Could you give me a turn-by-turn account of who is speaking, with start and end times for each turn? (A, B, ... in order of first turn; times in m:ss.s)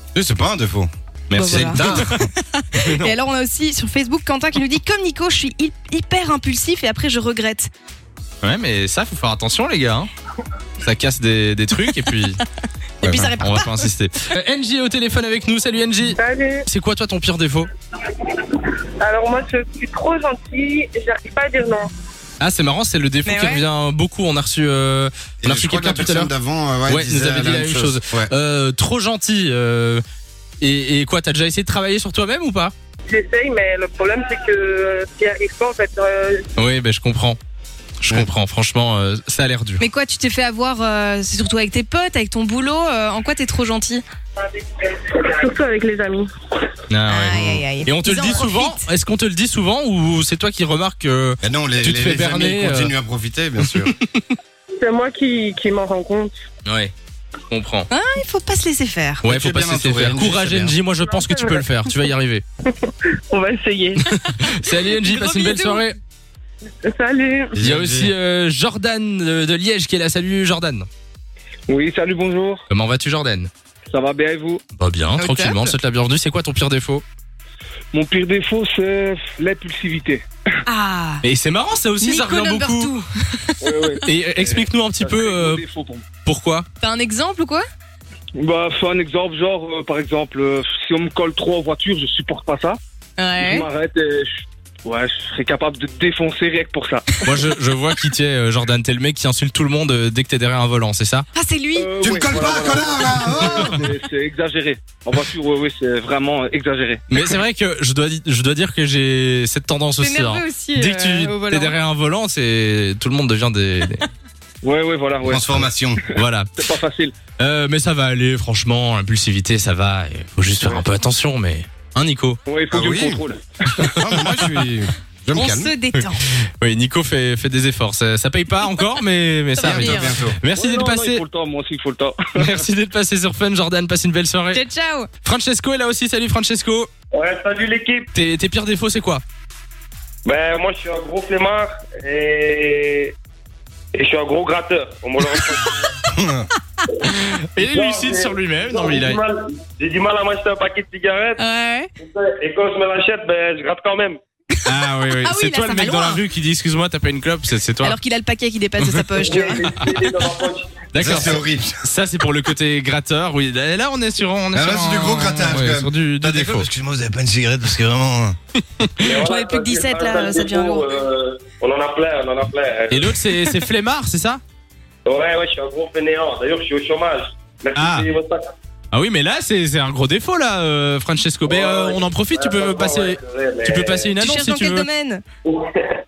0:00.1-0:00.9 A
0:01.3-0:02.1 B
0:01.3-0:07.7 C
0:01.4-0:02.3 A
0:02.8-0:03.2 B
0:08.4-0:10.1 B
0:10.8-0:12.4 B
0:13.0-0:13.8 C
0:13.0-0:13.3 A
0:13.4-0:17.7 B
0:16.1-0:16.6 D
0:18.6-0:21.9 D
0:22.4-0:26.3 B
0:23.2-0:23.6 C
0:25.4-0:28.3 A
0:26.9-0:30.0 B
0:30.6-0:32.7 B
0:33.1-0:36.4 D
0:36.6-0:37.4 B
0:38.0-0:39.8 B
0:39.8-0:44.0 C
0:44.8-0:46.3 D
0:46.9-0:52.9 B
0:47.1-0:48.8 C
0:51.4-0:53.9 A
0:53.6-0:54.2 B
0:54.8-0:56.4 D
0:56.7-0:56.9 B
0:57.5-0:57.9 B
0:57.9-0:59.2 C
0:59.2-1:00.8 A
0:59.2-1:02.4 B
1:01.0-1:01.6 D
1:02.8-1:04.0 D
1:04.4-1:06.0 B
1:05.0-1:05.8 C
1:06.9-1:07.5 D
1:07.6-1:08.1 A
1:07.6-1:10.9 B
1:11.7-1:12.6 E
1:12.7-1:13.5 B
1:13.9-1:14.6 E
1:14.8-1:17.0 B
1:15.2-1:15.7 C
1:17.9-1:20.2 E
1:20.7-1:21.2 C
1:21.2-1:22.9 B
1:22.0-1:23.9 C
1:23.6-1:26.0 E
1:24.0-1:25.6 B
1:26.2-1:26.7 B
1:26.8-1:27.7 C
1:28.4-1:32.8 E
1:33.2-1:33.7 C
1:33.4-1:37.0 E
1:37.2-1:41.3 B
1:41.4-1:42.0 C
1:41.8-1:47.0 E
1:42.0-1:43.9 A
1:47.1-1:54.0 B
1:50.0-1:51.8 C
1:54.6-1:55.7 E
1:55.2-1:56.0 A
1:56.1-1:56.5 B
1:56.6-1:57.2 E
1:57.4-2:02.4 B
2:02.5-2:03.4 E
2:02.7-2:03.2 A
2:03.8-2:05.7 A
2:05.3-2:06.2 C
2:06.6-2:11.2 B
2:09.6-2:10.2 C
2:09.6-2:10.4 A
2:10.5-2:12.6 E
2:12.4-2:14.6 B
2:14.5-2:15.1 C
2:15.2-2:16.9 B
2:17.1-2:18.1 F
2:18.1-2:19.2 B
2:20.2-2:23.2 F
2:23.9-2:25.9 F
2:26.1-2:26.5 A
2:27.1-2:29.2 B
2:27.1-2:31.4 F
2:31.4-2:31.9 C
2:32.0-2:34.2 F
2:34.6-2:38.0 B
2:35.2-2:36.2 C
2:37.8-2:39.7 C
2:38.8-2:39.8 B
2:39.2-2:40.8 F
2:40.9-2:46.7 B
2:41.0-2:41.8 A
2:44.5-2:48.4 A
2:49.0-2:53.1 F
2:49.1-2:50.9 C
2:52.9-2:54.4 B
2:55.1-2:58.5 F
2:57.8-2:58.1 B
2:58.9-3:04.9 B
3:01.5-3:04.1 F
3:04.2-3:05.2 C